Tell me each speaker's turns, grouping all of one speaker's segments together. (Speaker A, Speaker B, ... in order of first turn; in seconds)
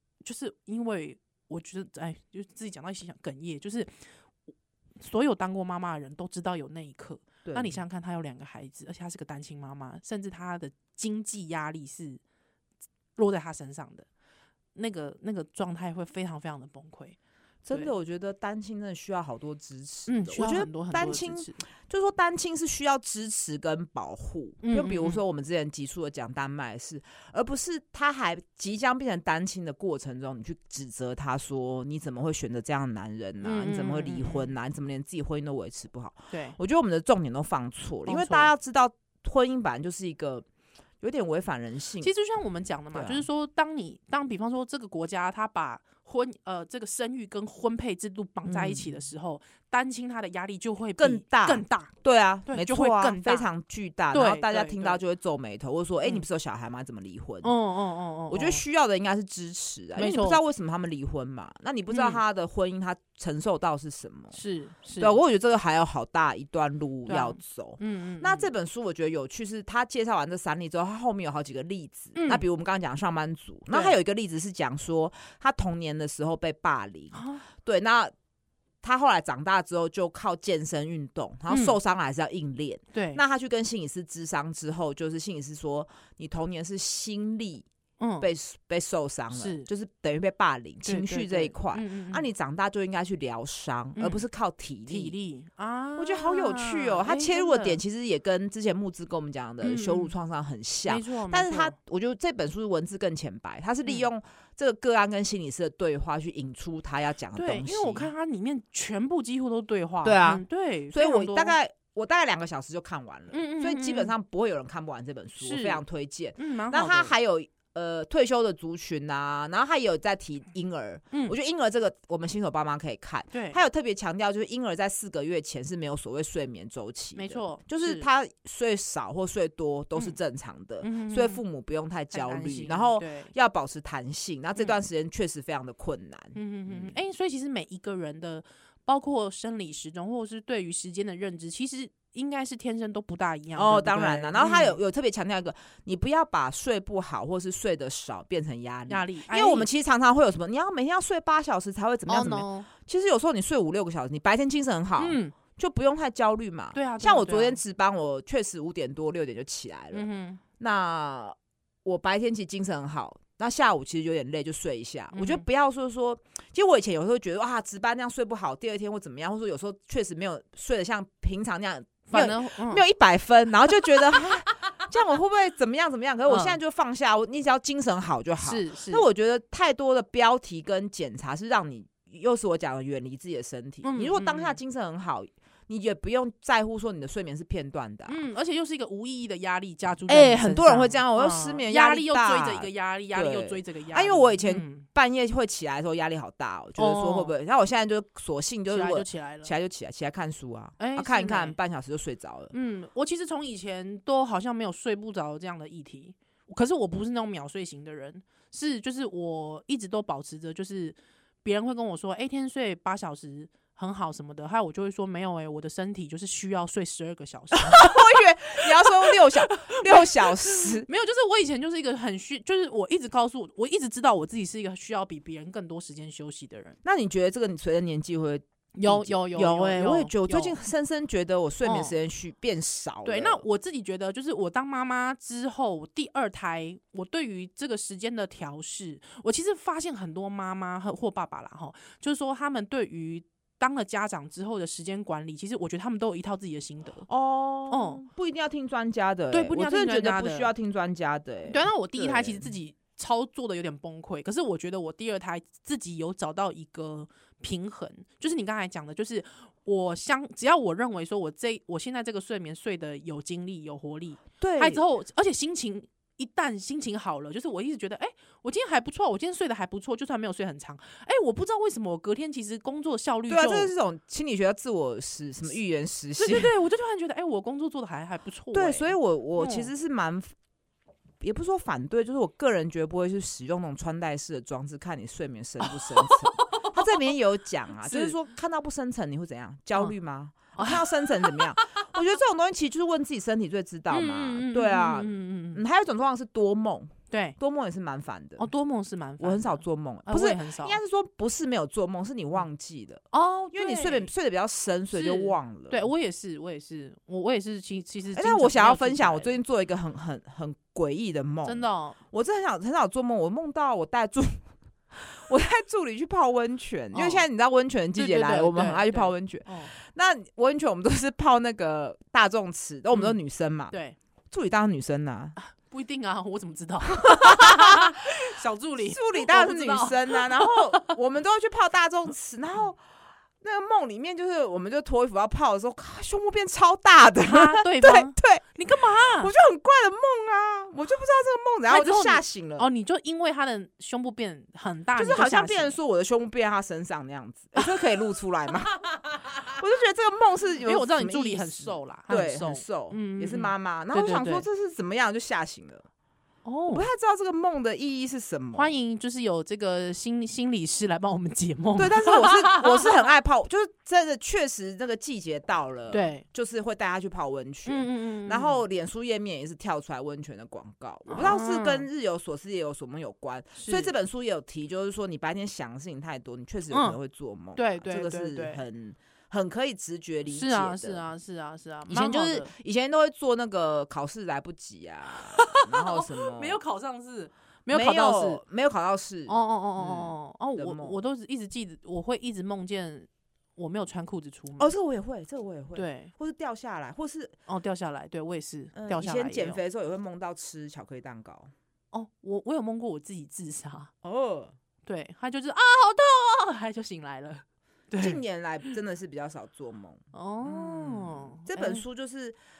Speaker A: 0.2-4.0, 5.0-12.2, 13.2-14.1, 14.8-17.2, 20.1-21.6, 24.6-25.2, 33.4-34.5, 36.3-36.6, 38.0-38.5, 42.0-51.9, 52.5-53.5, 54.1-55.0, 57.4-58.6, 60.0-60.4, 61.9-62.2, 64.3-65.2, 67.0-68.5, 72.1-72.4, 73.7-73.9, 77.1-77.5, 81.5-81.8, 82.9-83.2, 88.0-88.3, 89.3-89.7, 90.8-92.3, 94.0-94.2, 94.9-97.8, 99.6-100.1, 100.8-101.7, 107.3-111.5, 113.3-114.1, 115.4-115.8, 116.4-117.1, 123.3-123.6, 127.1-128.1, 130.8-131.4, 132.1-133.3, 136.3-144.8, 148.9-149.7, 152.1-152.7, 155.0-155.3, 156.7-157.6, 159.9-160.4, 165.1-165.4, 172.1-172.8, 176.3-176.6, 178.4-179.1, 183.8-184.6, 188.1-194.8, 196.8-197.3, 198.7-199.5, 200.8-201.6, 202.5-226.8, 228.8-230.6, 231.6-231.9, 233.0-247.1, 247.7-248.0, 249.3-250.5, 251.5-273.7, 276.2-279.7, 285.6-286.9, 287.8-288.1, 290.6-291.8, 293.9-295.6, 297.1-297.4, 298.4-300.8, 303.1-304.1, 304.9-309.4, 311.4-312.0, 316.9-317.2, 317.9-319.7, 323.7-324.0, 325.4-330.9, 337.2-339.3, 341.7-345.8, 350.6-354.4, 356.4-356.9, 358.6-363.0, 365.9-366.2, 367.6-368.6, 371.1-371.9, 373.6-373.9, 376.7-377.0, 377.6-378.6, 380.3-382.5, 385.1-388.4, 389.3-394.7, 395.7-396.1, 397.5-399.6, 401.9-403.9, 404.9-408.2, 410.1-411.8
Speaker B: 7.4-7.8, 17.6-40.5, 41.0-42.1, 42.9-43.2, 48.5-48.9, 51.0-57.5, 58.3-64.4, 65.0-78.1, 78.8-87.7, 88.2-95.1, 96.0-108.1, 110.0-136.9, 143.6-160.1, 160.6-188.2, 190.1-202.5, 217.5-220.9, 226.8-233.4, 247.1-252.5, 264.4-264.8, 273.3-276.5, 278.5-280.3, 281.2-298.5, 299.2-305.8, 308.1-323.8, 324.3-325.4, 326.9-328.0, 328.8-332.8, 333.4-338.4, 339.2-342.7, 345.0-355.9, 356.7-358.7, 361.8-381.0, 381.9-386.6, 387.7-391.0, 394.6-397.4, 398.7-401.5, 404.0-404.5, 408.0-412.4